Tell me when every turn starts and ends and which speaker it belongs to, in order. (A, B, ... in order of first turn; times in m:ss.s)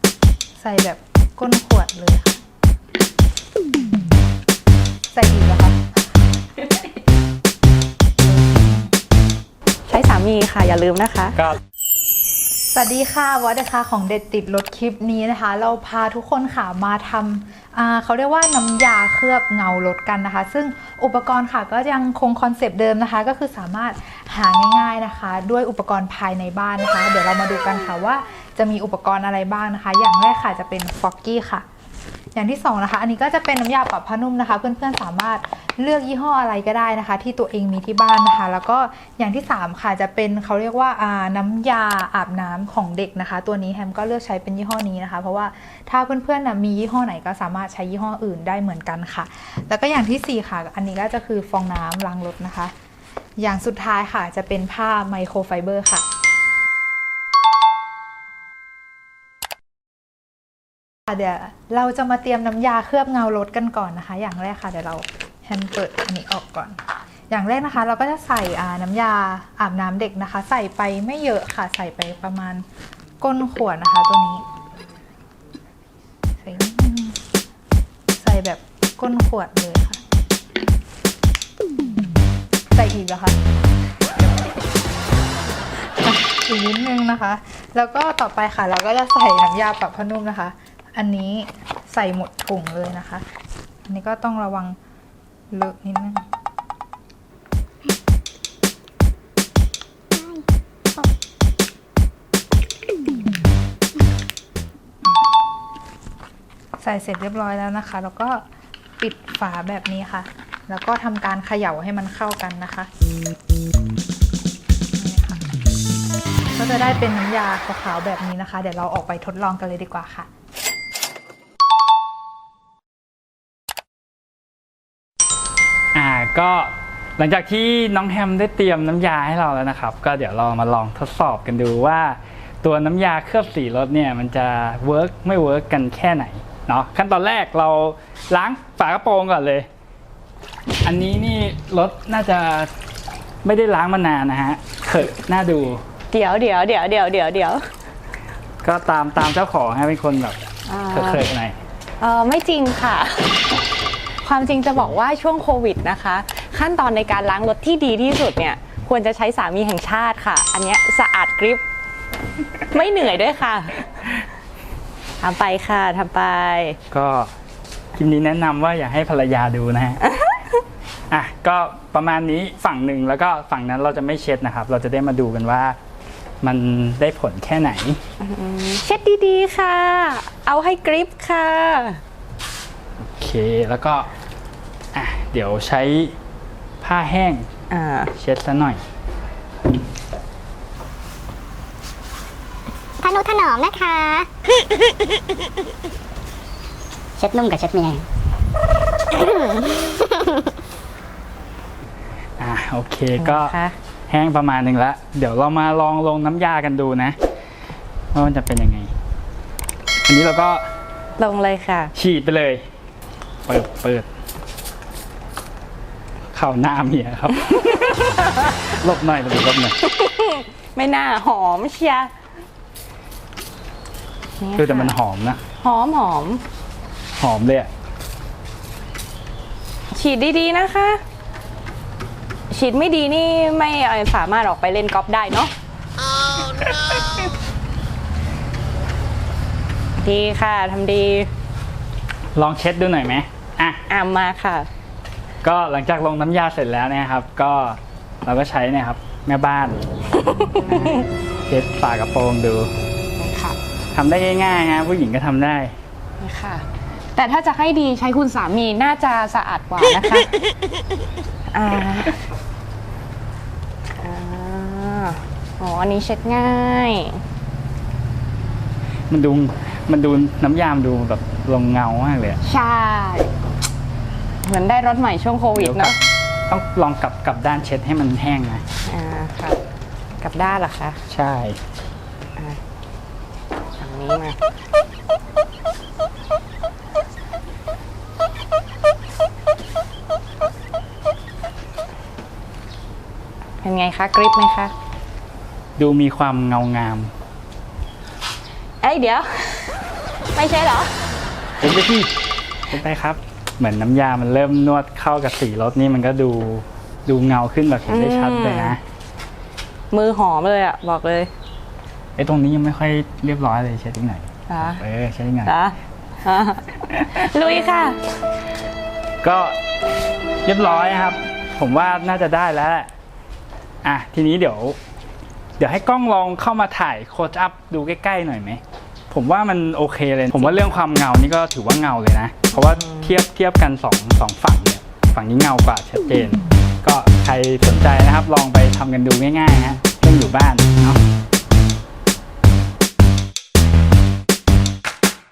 0:00.6-0:02.4 A
0:05.1-0:05.9 A
0:08.2-0:08.9 A
0:09.9-0:11.4 B
0:12.7-0:31.6 A
0:32.3-0:52.7 A
0:53.4-0:56.0 A
1:01.1-1:12.6 A
1:13.2-1:14.4 A
1:16.4-1:17.2 A
1:18.1-1:20.0 A
1:22.7-1:23.4 A
1:25.8-1:33.2 A
1:33.9-1:34.8 A
1:35.5-1:36.2 A
1:46.8-1:48.4 A
1:49.0-1:52.9 A
1:55.0-1:55.5 A
1:56.5-2:00.3 A
2:05.9-2:19.7 C
2:20.8-2:22.7 C
2:23.4-2:25.8 C
2:26.1-2:27.6 B
2:28.6-2:30.4 C
2:30.7-2:31.2 B
2:30.9-2:31.6 C
2:32.0-2:33.6 B
2:34.2-2:41.6 B
2:42.7-2:44.2 B
2:45.2-2:46.8 B
2:46.9-2:47.3 C
2:48.0-2:50.0 C
2:50.0-2:50.6 B
2:51.1-2:55.8 C
2:56.4-2:58.0 C
2:58.2-3:02.0 B
3:03.2-3:04.1 C
3:04.9-3:06.2 C
3:06.8-3:07.5 C
3:07.7-3:08.1 B
3:08.1-3:08.8 C
3:13.0-3:14.3 D
3:17.2-3:18.0 D
3:19.1-3:20.4 D
3:22.4-3:23.6 C
3:23.2-3:23.7 B
3:24.1-3:27.2 C
3:28.1-3:28.9 C
3:30.0-3:30.7 C
3:31.2-3:31.9 B
3:31.9-3:32.6 C
3:33.5-3:34.1 C
3:36.3-3:39.7 C
3:39.8-3:42.1 B
3:44.4-3:45.0 B
3:44.6-3:45.4 C
3:45.6-3:46.4 B
3:47.2-3:47.7 C
3:49.9-3:51.0 B
3:52.5-3:55.5 B
3:56.4-3:57.3 B
4:00.0-4:01.3 B
4:02.3-4:03.8 C
4:03.9-4:04.7 B
4:05.4-4:09.9 C
4:10.3-4:11.1 B
4:11.5-4:12.7 C
4:13.2-4:13.6 B
4:13.9-4:15.7 C
4:16.2-4:20.4 B
4:21.5-4:22.2 B
4:24.0-4:27.2 B
4:29.1-4:32.4 C
4:32.4-4:33.3 B
4:34.4-4:36.0 B
4:35.6-4:36.0 C
4:36.5-4:38.6 C
4:38.8-4:39.6 B
4:40.2-4:41.0 B
4:41.1-4:41.6 C
4:43.8-4:44.4 B
4:53.6-4:54.7 B
4:55.8-4:57.1 C
4:58.8-5:01.1 B
5:01.6-5:02.1 C
5:02.7-5:08.8 C
5:07.9-5:08.8 B
5:09.9-5:11.3 B
5:12.2-5:15.5 C
5:14.5-5:14.8 B
5:15.4-5:18.0 B
5:19.2-5:19.6 C
5:20.4-5:22.9 C
5:23.8-5:24.8 C
5:25.6-5:41.0 C
5:30.4-5:30.8 B
5:32.5-5:33.2 B